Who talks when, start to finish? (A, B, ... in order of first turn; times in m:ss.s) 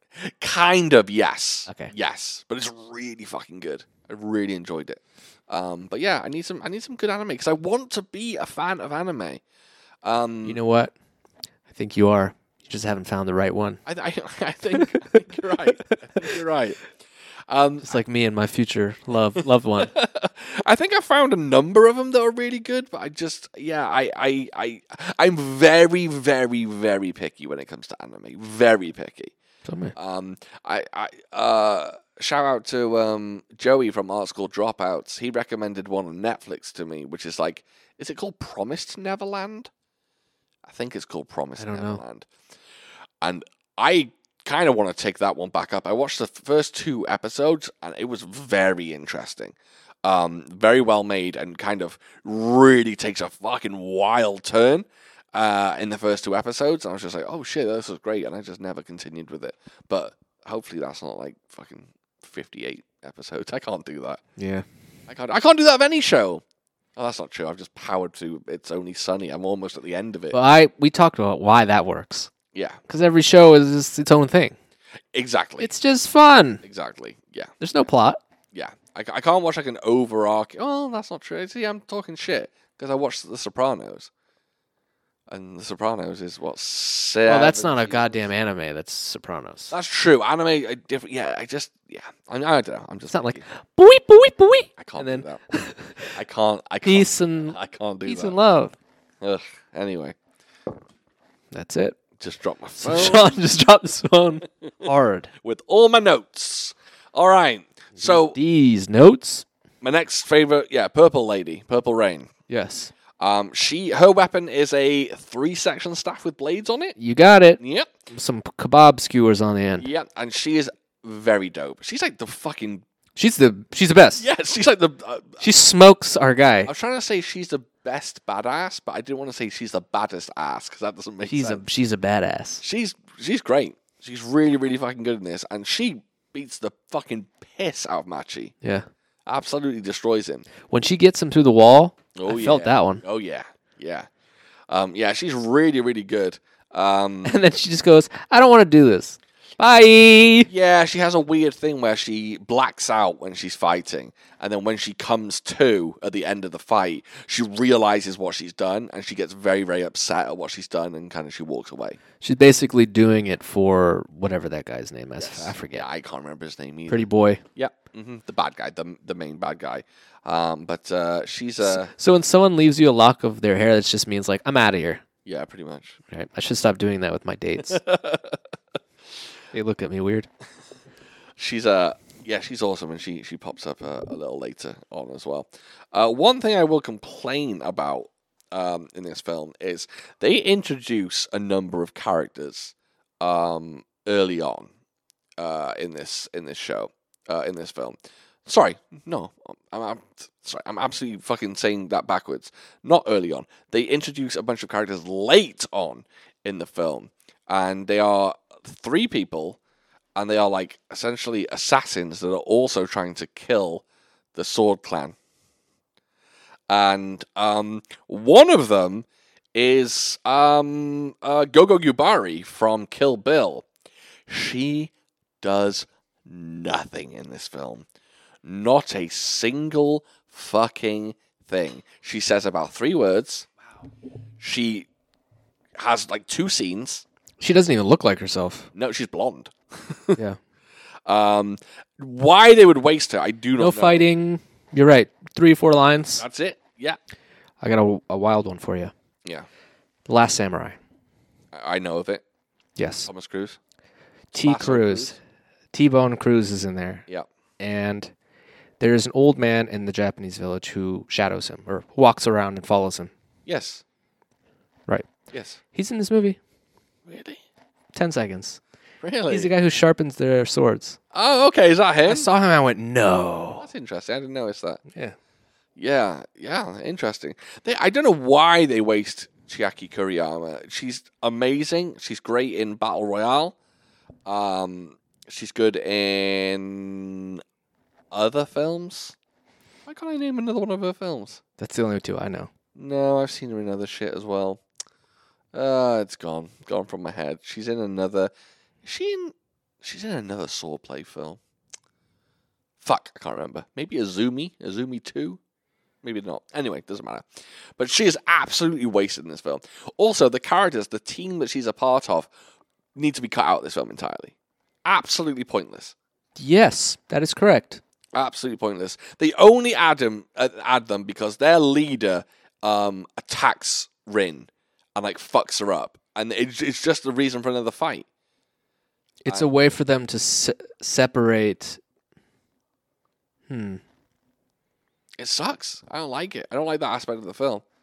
0:00.2-0:09.4 A
0:01.7-0:01.9 B
0:10.0-0:10.6 A
0:10.4-0:10.9 B
0:11.7-0:13.8 B
0:13.9-0:16.8 A
0:15.9-0:16.4 B
0:17.5-0:17.9 A
0:17.8-0:19.9 B
0:19.8-0:29.3 A
0:29.7-0:29.9 B
0:30.0-0:39.7 A
0:40.7-0:42.3 A
0:41.6-0:42.0 B
0:43.2-1:04.2 A
1:04.4-1:04.7 B
1:05.1-1:06.4 A
1:07.0-1:10.4 A
1:10.3-1:12.3 B
1:12.5-1:12.8 A
1:12.9-1:14.6 B
1:15.1-1:15.7 A
1:15.6-1:16.6 B
1:16.6-1:17.5 A
1:17.6-1:18.2 B
1:18.5-1:24.1 A
1:25.3-1:28.2 A
1:27.2-1:29.7 B
1:29.7-1:33.4 A
1:33.1-1:36.2 B
1:34.8-1:35.6 A
1:36.1-1:38.4 A
1:36.8-1:38.7 B
1:39.2-1:40.2 A
1:41.5-1:42.0 B
1:42.2-1:43.3 A
1:42.8-1:45.3 B
1:45.4-1:48.4 A
1:48.0-1:49.4 B
1:49.8-1:52.3 A
1:52.5-1:52.9 B
1:53.2-1:57.0 A
1:57.0-1:57.6 B
1:57.6-1:57.9 A
1:58.1-1:59.9 B
1:59.8-2:02.8 A
2:03.2-2:04.2 B
2:04.2-2:05.4 A
2:05.4-2:06.7 B
2:06.7-2:11.6 A
2:11.2-2:12.6 B
2:12.6-2:18.5 A
2:19.3-2:20.5 A
2:20.7-2:23.0 B
2:22.2-2:24.1 A
2:24.7-2:27.4 A
2:27.2-2:30.5 B
2:30.5-2:42.0 A
2:42.2-2:45.9 B
2:45.2-2:51.9 A
2:46.9-2:47.4 B
2:51.6-2:55.0 B
2:55.2-2:56.0 A
2:56.1-2:57.8 B
2:57.7-2:58.4 A
2:59.5-3:00.3 B
3:01.4-3:14.7 A
3:15.4-3:29.6 A
3:30.2-3:33.8 A
3:34.4-3:35.2 A
3:36.7-3:43.7 A
3:44.3-3:47.9 A
3:48.4-3:53.5 A
3:54.4-3:54.9 A
3:55.8-3:57.0 A
3:57.4-3:58.7 B
3:58.7-4:00.2 A
4:01.1-4:04.0 A
4:03.6-4:06.2 B
4:06.2-4:07.0 A
4:07.6-4:08.9 B
4:10.1-4:10.8 B
4:11.5-4:12.2 A
4:12.8-4:13.1 B
4:13.1-4:13.6 A
4:14.3-4:15.2 B
4:14.4-4:15.2 A
4:15.7-4:17.0 B
4:17.6-4:18.1 B
4:18.8-4:23.1 B
4:23.5-4:23.8 A
4:25.3-4:25.6 A
4:25.7-4:26.4 B
4:27.1-4:27.4 A
4:27.9-4:28.6 B
4:29.0-4:29.5 A
4:29.3-4:31.0 B
4:31.1-4:32.3 A
4:32.1-4:33.7 B
4:33.6-4:34.8 A
4:35.8-4:43.6 A
4:44.3-4:47.4 A
4:48.1-4:49.2 A
4:49.9-4:51.4 A
4:51.6-4:52.5 B
4:52.8-4:54.6 A
4:55.5-4:58.3 A
4:58.8-5:01.4 A
5:02.8-5:05.4 A
5:06.0-5:07.3 A
5:07.8-5:12.3 A
5:13.0-5:14.3 A
5:14.8-5:16.0 A
5:16.4-5:17.8 B
5:18.2-5:28.1 A
5:29.2-5:31.8 B
5:33.5-5:33.8 B
5:35.2-5:37.6 A